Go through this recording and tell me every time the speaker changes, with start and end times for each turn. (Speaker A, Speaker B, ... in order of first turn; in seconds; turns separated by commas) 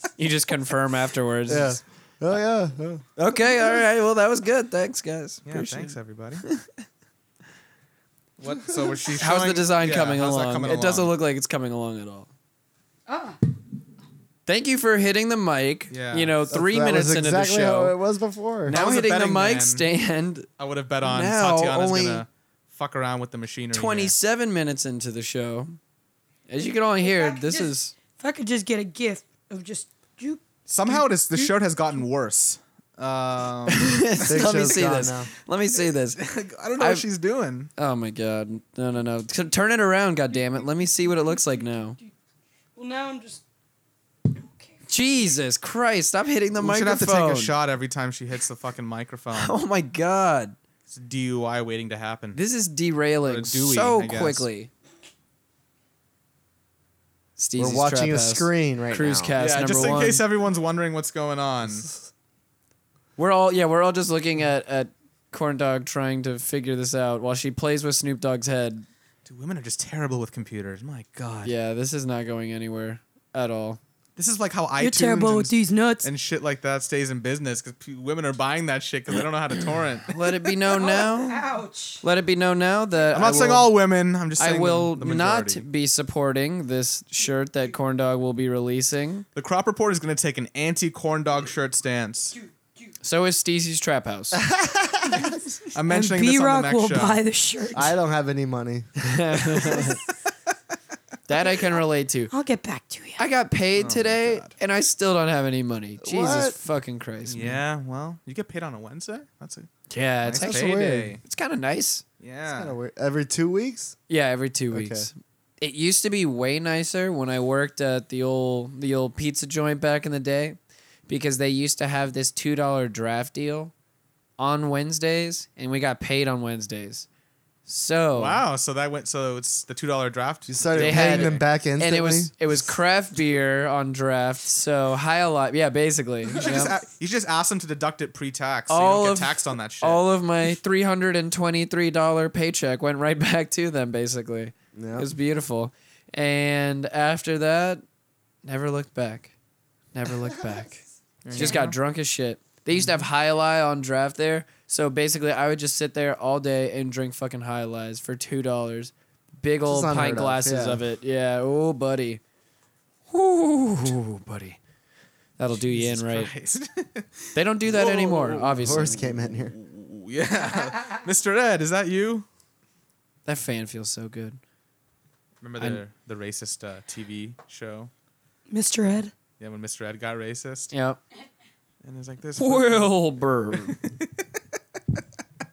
Speaker A: 0.2-1.8, Speaker B: 1.5-3.0, Speaker A: 3.2-6.7, Speaker C: 5.5-6.5, Speaker C: 8.4-11.1, Speaker A: 9.2-12.3, Speaker D: 13.1-13.4, Speaker A: 14.5-17.9, Speaker C: 15.9-16.4, Speaker B: 16.5-18.8, Speaker A: 18.7-20.5, Speaker C: 18.7-19.9, Speaker C: 20.6-24.1, Speaker A: 21.0-22.2, Speaker A: 23.7-25.8, Speaker A: 26.5-27.9, Speaker D: 27.0-31.5, Speaker C: 30.7-34.7, Speaker A: 33.7-36.2, Speaker B: 34.3-35.3, Speaker C: 36.1-37.7, Speaker A: 36.8-37.0, Speaker A: 37.8-42.0, Speaker D: 42.8-43.4, Speaker D: 44.3-44.8, Speaker A: 44.9-47.5, Speaker C: 46.6-49.5, Speaker A: 49.4-50.6, Speaker C: 50.9-52.4, Speaker A: 52.4-54.7, Speaker C: 53.2-54.5, Speaker A: 57.4-60.2, Speaker B: 57.6-59.4, Speaker C: 59.4-61.9, Speaker A: 63.2-68.9, Speaker C: 69.2-71.5, Speaker A: 71.4-73.8, Speaker C: 74.2-80.2, Speaker D: 74.8-76.1, Speaker A: 80.1-81.4, Speaker D: 80.7-82.0, Speaker A: 82.0-83.7, Speaker C: 83.1-85.7, Speaker A: 84.4-89.2, Speaker C: 89.4-92.4, Speaker A: 93.0-94.5, Speaker B: 94.3-95.4, Speaker C: 95.7-97.2, Speaker D: 95.9-97.9, Speaker B: 97.7-98.9, Speaker A: 99.0-100.0, Speaker A: 101.3-102.3, Speaker D: 102.3-103.2, Speaker A: 103.2-107.6, Speaker C: 103.8-104.5, Speaker B: 106.0-106.5, Speaker C: 107.3-109.7, Speaker A: 109.9-112.0, Speaker C: 110.2-111.2, Speaker B: 110.3-111.1, Speaker C: 112.2-112.8, Speaker B: 112.5-114.0, Speaker A: 114.1-123.7, Speaker B: 114.7-115.1, Speaker A: 124.4-127.1, Speaker A: 127.7-128.4, Speaker C: 128.2-131.4, Speaker B: 130.5-132.3, Speaker A: 130.8-136.8, Speaker C: 136.3-140.0, Speaker A: 138.7-147.8, Speaker B: 144.8-145.1, Speaker A: 148.4-149.3, Speaker A: 149.9-162.2, Speaker C: 151.2-151.8, Speaker B: 159.7-160.8, Speaker A: 163.1-164.6, Speaker A: 165.4-166.3, Speaker C: 165.5-172.3, Speaker A: 167.3-169.0, Speaker B: 168.6-169.5, Speaker A: 173.3-174.4, Speaker C: 175.4-177.9, Speaker D: 178.5-179.1, Speaker C: 179.4-180.7, Speaker A: 180.7-181.0, Speaker C: 181.8-182.9, Speaker A: 182.4-183.8, Speaker C: 183.7-184.2